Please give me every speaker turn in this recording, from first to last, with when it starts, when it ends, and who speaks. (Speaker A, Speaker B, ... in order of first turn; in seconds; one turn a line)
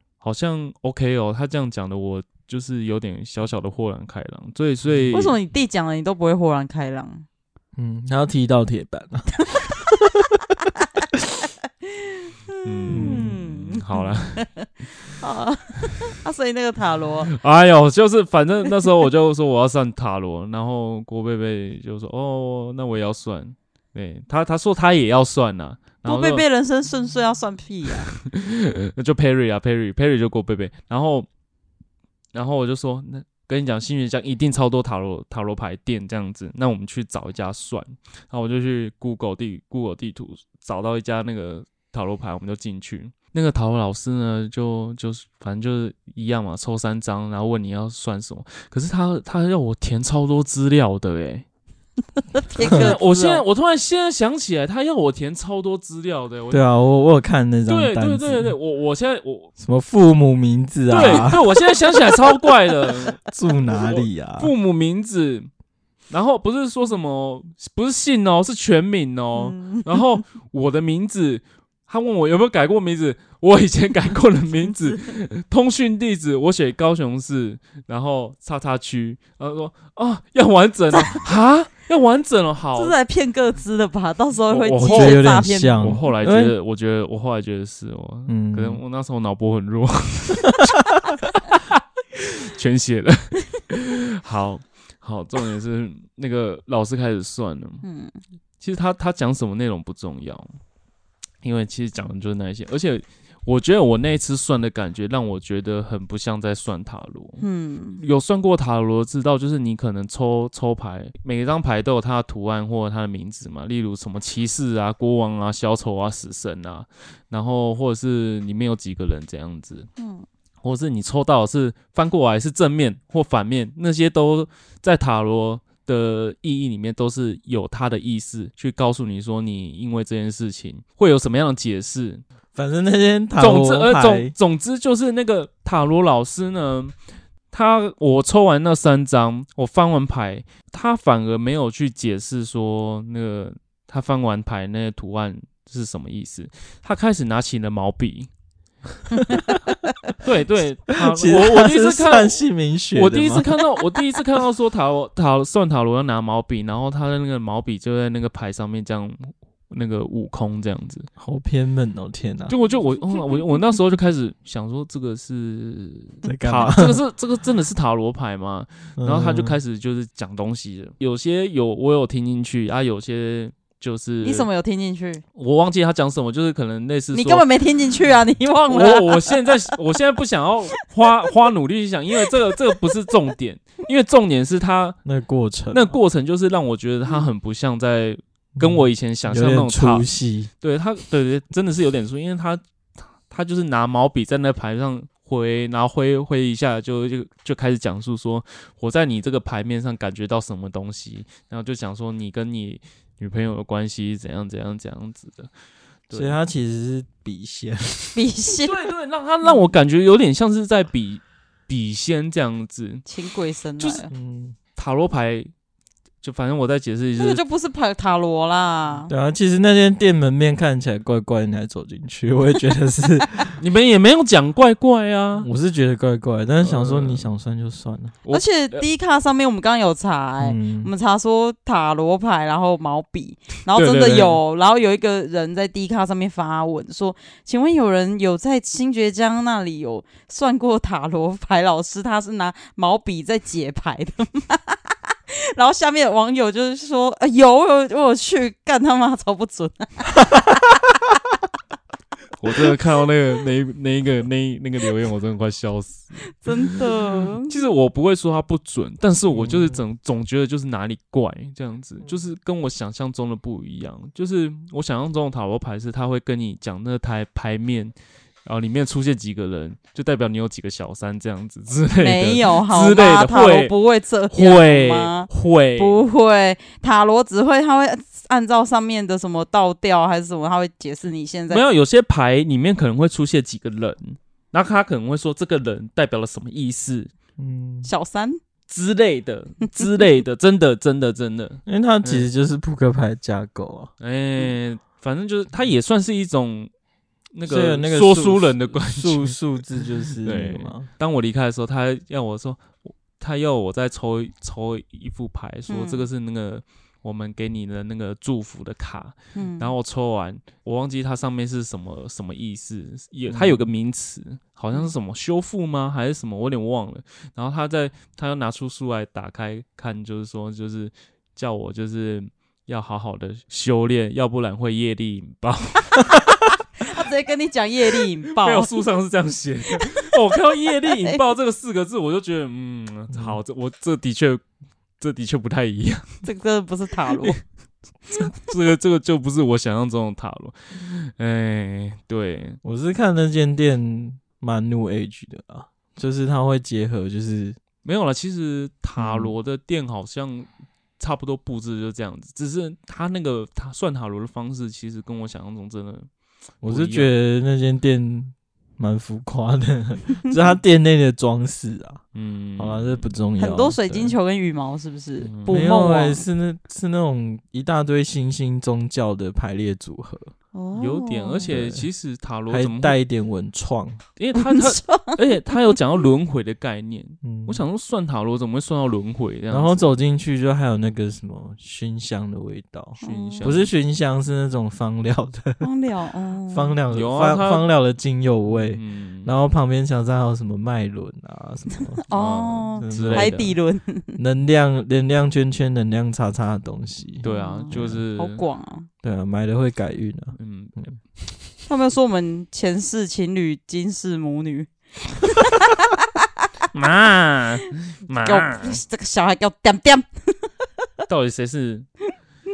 Speaker A: 0.2-5.3
Speaker B: 4.8-5.2
Speaker C: 5.1-7.2
Speaker B: 7.8-10.2
Speaker C: 9.4-9.8
Speaker C: 11.9-17.3
Speaker A: 12.6-14.5
Speaker B: 12.9-13.3
Speaker A: 17.3-26.4
Speaker C: 26.0-28.1
Speaker A: 28.1-31.3
Speaker A: 32.3-51.5
Speaker C: 52.3-53.4
Speaker A: 52.6-56.6
Speaker B: 52.6-52.9
Speaker B: 56.5-58.5
Speaker A: 57.7-59.5
Speaker B: 59.6-61.5
Speaker A: 60.9-65.5
Speaker B: 63.2-64.5
Speaker A: 66.1-83.0
Speaker C: 69.3-70.0
Speaker C: 82.7-86.0
Speaker A: 84.5-97.8
Speaker B: 84.8-86.5
Speaker B: 88.3-88.8
Speaker C: 97.8-98.2
Speaker A: 98.6-100.5
Speaker A: 101.4-107.4
Speaker C: 107.4-108.0
Speaker A: 108.0-119.9
Speaker C: 120.0-120.2
Speaker A: 120.6-132.2
Speaker B: 132.5-134.3
Speaker A: 133.4-136.9
Speaker A: 137.5-148.3
Speaker A: 150.2-152.4
Speaker B: 151.0-153.6
Speaker A: 152.9-161.1
Speaker B: 161.2-162.6
Speaker A: 162.5-174.5
Speaker B: 166.2-167.0
Speaker B: 169.0-169.6
Speaker C: 174.2-175.2
Speaker A: 175.3-177.4
Speaker C: 177.1-179.5
Speaker A: 178.7-185.0
Speaker B: 185.0-185.9
Speaker A: 185.7-190.1
Speaker B: 188.6-190.5
Speaker A: 190.6-192.6
Speaker A: 193.3-205.5
Speaker A: 206.1-206.3
Speaker B: 206.1-208.2
Speaker C: 208.1-208.8
Speaker A: 208.6-213.1
Speaker C: 213.1-214.1
Speaker A: 213.8-214.1
Speaker B: 214.1-214.6
Speaker A: 214.8-215.5
Speaker A: 216.2-217.4
Speaker C: 217.2-219.1
Speaker B: 219.1-223.6
Speaker A: 223.6-225.5
Speaker B: 225.4-228.2
Speaker A: 226.6-227.3
Speaker A: 228.2-228.8
Speaker C: 228.3-251.0
Speaker B: 230.4-230.9
Speaker A: 233.7-234.4
Speaker A: 252.4-273.7
Speaker C: 256.3-257.5
Speaker B: 259.3-259.8
Speaker C: 271.9-281.6
Speaker A: 274.3-276.0
Speaker A: 281.5-287.1
Speaker B: 287.4-287.9
Speaker C: 287.8-288.4
Speaker A: 288.7-292.3
Speaker B: 291.6-293.9
Speaker A: 294.0-296.7
Speaker A: 297.3-299.4
Speaker B: 297.4-300.9
Speaker A: 300.2-326.2
Speaker C: 305.7-306.0
Speaker C: 309.3-309.7
Speaker B: 313.3-313.7
Speaker C: 326.8-328.7
Speaker A: 328.3-334.4
Speaker B: 333.1-333.4
Speaker A: 335.0-336.2
Speaker C: 336.2-337.4
Speaker A: 338.1-342.6
Speaker B: 342.6-347.6
Speaker A: 347.8-350.5
Speaker B: 349.0-349.3
Speaker A: 351.0-356.1
Speaker A: 356.6-357.1
Speaker B: 356.6-362.0
Speaker A: 362.1-363.1
Speaker B: 362.6-364.1
Speaker C: 363.4-366.2
Speaker A: 365.2-365.6
Speaker B: 365.5-370.3
Speaker C: 370.5-371.5
Speaker A: 370.8-373.0
Speaker B: 371.5-371.9
Speaker B: 372.5-374.0
Speaker A: 374.2-379.8
Speaker C: 374.3-375.7
Speaker B: 377.2-377.6
Speaker B: 379.5-385.7
Speaker C: 383.0-383.5
Speaker A: 383.0-383.7
Speaker C: 385.6-386.7
Speaker B: 386.5-392.0
Speaker A: 386.9-387.7
Speaker A: 388.5-389.3
Speaker C: 392.1-394.2
Speaker A: 392.1-393.6
Speaker B: 392.8-393.5
Speaker B: 394.2-398.0
Speaker A: 397.2-398.4
Speaker C: 397.2-398.9
Speaker B: 399.0-400.9
Speaker A: 400.4-400.9
Speaker C: 401.7-406.6
Speaker A: 406.7-408.8
Speaker C: 408.2-410.5
Speaker A: 411.1-411.9